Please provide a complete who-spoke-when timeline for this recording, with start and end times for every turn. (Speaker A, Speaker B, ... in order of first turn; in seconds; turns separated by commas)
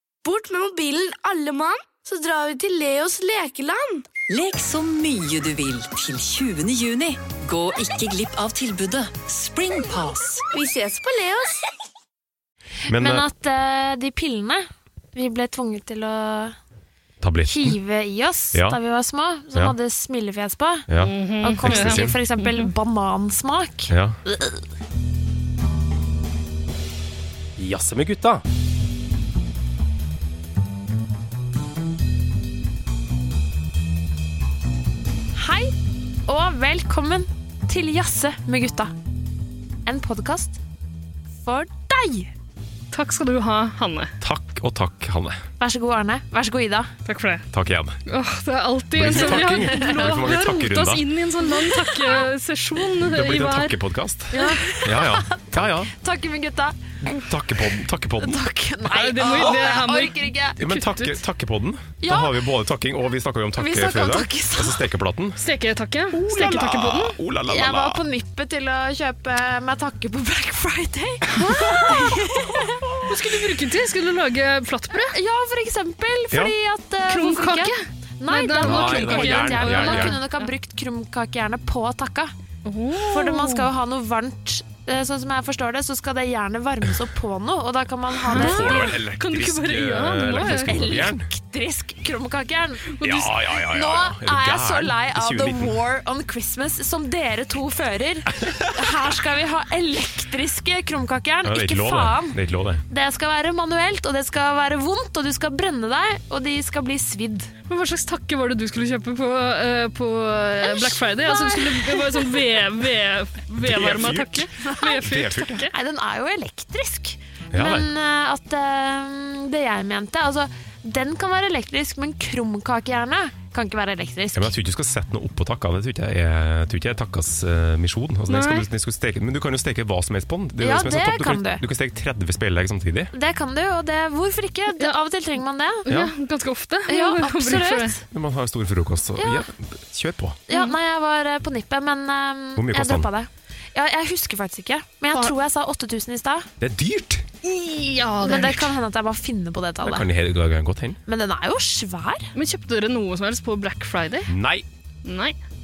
Speaker A: 0.2-4.1, Speaker B: 4.3-10.4, Speaker A: 10.5-11.6, Speaker C: 12.9-13.2, Speaker D: 12.9-16.6, Speaker C: 17.2-17.8, Speaker D: 17.4-20.9, Speaker C: 20.9-22.2, Speaker E: 21.0-22.7, Speaker D: 21.4-24.6, Speaker C: 23.9-24.2, Speaker C: 27.6-28.4, Speaker D: 35.4-35.7, Speaker D: 36.3-38.9, Speaker D: 39.9-40.6, Speaker D: 41.3-42.3, Speaker E: 42.9-44.1, Speaker C: 44.2-45.4, Speaker D: 45.6-46.9, Speaker E: 47.1-47.5, Speaker C: 47.5-48.0, Speaker E: 48.1-53.8, Speaker C: 49.0-51.1, Speaker D: 49.1-50.0, Speaker D: 51.5-52.2, Speaker C: 53.0-55.9, Speaker D: 54.3-57.3, Speaker E: 54.3-54.6, Speaker C: 57.0-58.5, Speaker D: 58.2-61.0, Speaker E: 58.9-60.2, Speaker C: 60.6-65.4, Speaker D: 62.0-62.4, Speaker D: 63.6-64.9, Speaker E: 65.4-67.2, Speaker C: 66.2-68.0, Speaker D: 67.5-73.1, Speaker E: 71.5-72.1, Speaker E: 73.0-75.2, Speaker D: 75.0-82.3, Speaker E: 77.1-80.5, Speaker C: 78.6-80.2, Speaker E: 82.7-83.7, Speaker D: 83.1-89.0, Speaker C: 88.3-91.3, Speaker E: 88.3-91.1, Speaker D: 90.4-93.0, Speaker E: 92.9-93.4, Speaker C: 93.0-95.7, Speaker D: 93.6-107.5, Speaker C: 98.3-99.0, Speaker C: 101.4-102.8, Speaker E: 107.7-115.7, Speaker D: 110.6-112.5, Speaker C: 113.6-115.7, Speaker D: 114.6-115.0, Speaker D: 115.7-124.5, Speaker C: 117.5-117.9, Speaker C: 124.4-133.1, Speaker E: 128.3-128.7, Speaker D: 130.6-131.6, Speaker D: 133.1-135.9, Speaker E: 135.8-137.9, Speaker C: 135.9-136.1, Speaker D: 136.9-138.0, Speaker C: 138.1-140.4, Speaker D: 139.2-139.5, Speaker D: 140.5-146.5, Speaker C: 142.6-143.1, Speaker C: 146.6-147.3, Speaker E: 147.4-148.7, Speaker D: 148.2-150.1, Speaker C: 149.8-151.0, Speaker D: 151.1-152.3, Speaker E: 152.3-154.3, Speaker C: 154.3-154.7, Speaker E: 155.0-155.4